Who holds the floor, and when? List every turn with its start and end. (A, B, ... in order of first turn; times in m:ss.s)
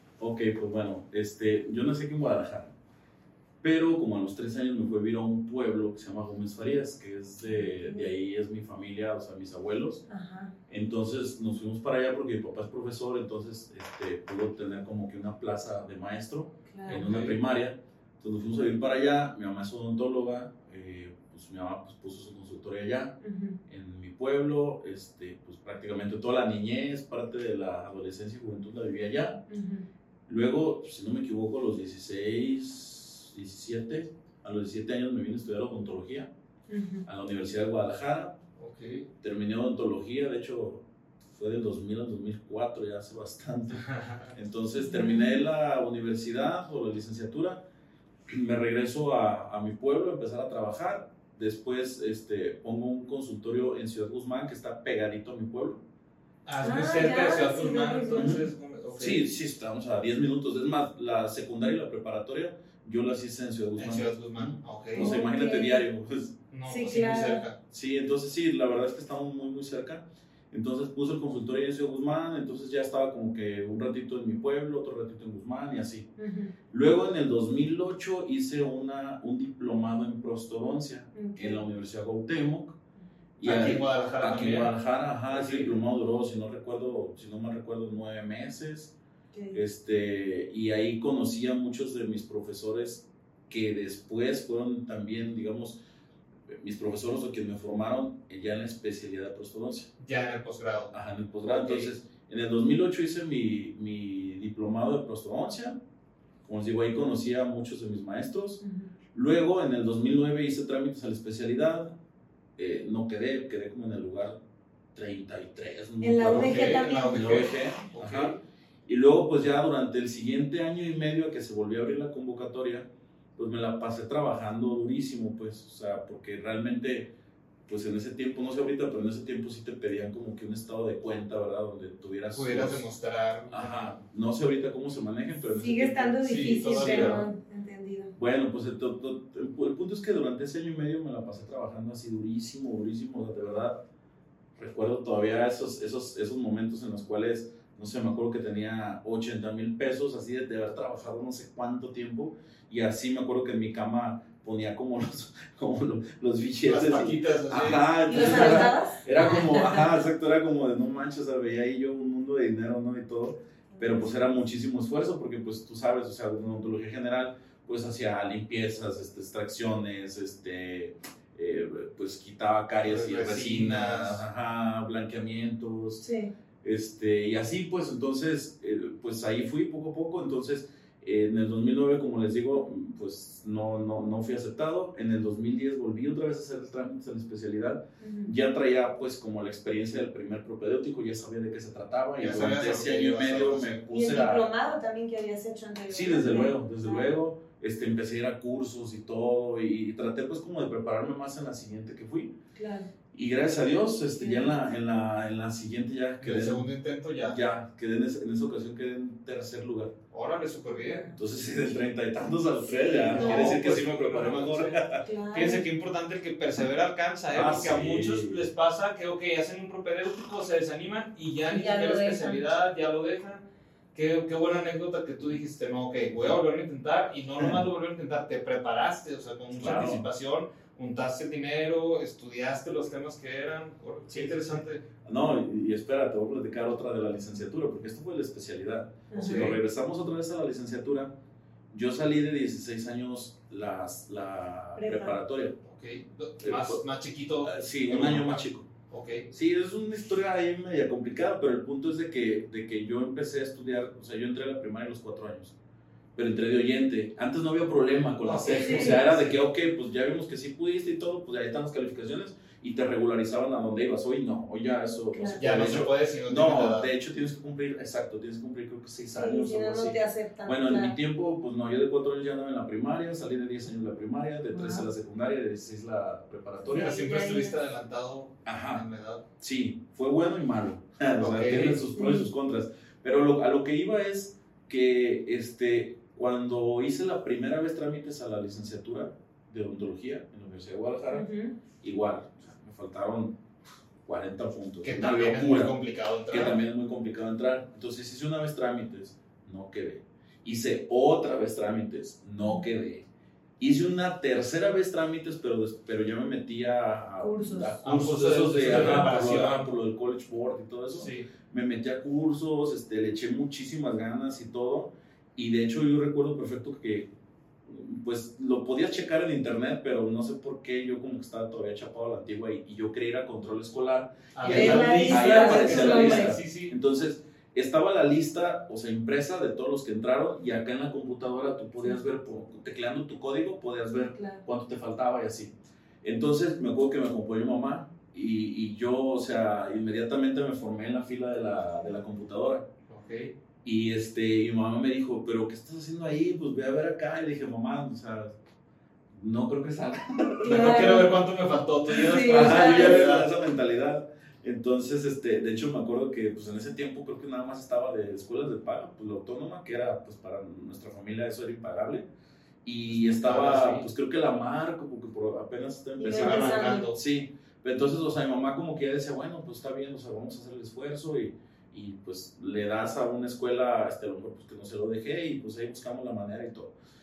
0:00.2-0:02.7 A
0:03.6-0:10.0 A
0:07.4-0:08.1 B
0:10.1-0:10.5 B
0:10.7-0:23.1 A
0:16.7-0:17.0 B
0:16.9-0:17.4 C
0:23.2-0:23.6 B
0:23.7-0:29.4 A
0:29.5-0:29.8 B
0:30.3-0:36.3 A
0:36.7-0:37.0 B
0:37.0-0:38.4 A
0:38.6-0:39.1 C
0:39.2-0:47.6 A
0:43.8-0:44.3 C
0:44.8-0:45.4 B
0:48.3-0:55.8 A
0:56.4-0:59.2 C
0:56.6-0:58.4 B
0:58.2-1:06.4 A
1:03.8-1:05.1 C
1:05.0-1:05.8 B
1:06.5-1:07.6 C
1:06.7-1:07.4 B
1:07.7-1:16.1 A
1:16.2-1:16.5 B
1:16.7-1:22.8 A
1:21.1-1:21.6 B
1:23.4-1:28.9 A
1:23.4-1:24.7 C
1:25.3-1:25.7 C
1:29.3-1:29.6 B
1:29.5-1:35.8 A
1:36.5-1:39.9 A
1:40.0-1:40.9 C
1:40.9-1:45.8 A
1:41.5-1:41.9 C
1:46.4-1:48.6 A
1:48.6-1:48.9 B
1:49.1-1:52.0 A
1:52.6-1:54.4 A
1:54.9-1:58.4 A
1:56.0-1:57.5 B
1:56.2-1:58.4 C
1:58.9-2:07.1 A
2:07.7-2:12.8 A
2:12.3-2:13.7 C
2:13.5-2:17.3 A
2:15.6-2:18.1 B
2:16.2-2:17.2 C
2:18.2-2:23.8 A
2:24.6-2:56.0 A
2:36.6-2:38.7 C
2:38.1-2:39.8 B
2:43.7-2:44.0 B
2:52.9-2:54.2 C
2:56.0-2:56.3 B
2:56.6-3:14.5 A
3:08.0-3:08.3 B
3:12.2-3:13.8 C
3:13.9-3:17.2 B
3:15.9-3:22.3 A
3:22.6-3:22.9 B
3:23.1-3:26.7 A
3:24.2-3:24.6 B
3:26.2-3:27.4 C
3:27.2-3:30.0 A
3:30.1-3:31.1 C
3:30.8-3:31.2 B
3:31.1-3:35.0 A
3:32.6-3:33.6 B
3:33.1-3:34.8 C
3:35.0-3:35.6 B
3:35.3-3:54.8 C
3:37.3-3:38.5 A
3:41.5-3:42.4 B
3:49.5-3:50.0 A
3:54.1-4:01.1 A
3:59.1-3:59.4 B
3:59.2-3:59.6 C
4:01.7-4:05.6 A
4:04.8-4:05.2 B
4:05.6-4:09.3 C
4:06.4-4:06.8 A
4:07.4-4:08.7 A
4:09.3-4:15.6 A
4:16.1-4:37.0 A
4:18.2-4:19.4 C
4:18.6-4:19.0 B
4:25.1-4:25.4 B
4:25.4-4:26.9 C
4:29.1-4:31.0 B
4:34.5-4:34.9 B
4:36.6-4:37.6 B
4:36.7-4:39.2 C
4:38.4-4:38.8 A
4:39.4-4:51.3 A
4:41.2-4:41.8 C
4:41.9-4:42.3 B
4:51.1-4:51.5 B
4:51.8-4:53.4 A
4:54.0-4:55.7 A
4:54.8-4:56.6 C
4:56.3-5:03.1 A
5:03.6-5:17.1 A
5:07.2-5:07.7 B
5:07.8-5:09.7 C
5:10.9-5:11.3 C
5:17.6-5:42.7 A
5:24.3-5:26.7 C
5:24.4-5:26.4 B
5:34.1-5:34.4 B
5:42.9-5:43.3 C
5:43.6-5:48.3 A
5:49.1-5:51.1 A
5:50.4-5:51.1 B
5:50.4-5:53.3 C
5:51.9-6:02.0 A
5:52.0-5:53.1 B
6:02.6-6:16.7 A
6:02.9-6:03.9 C
6:06.0-6:06.9 B
6:06.1-6:07.0 C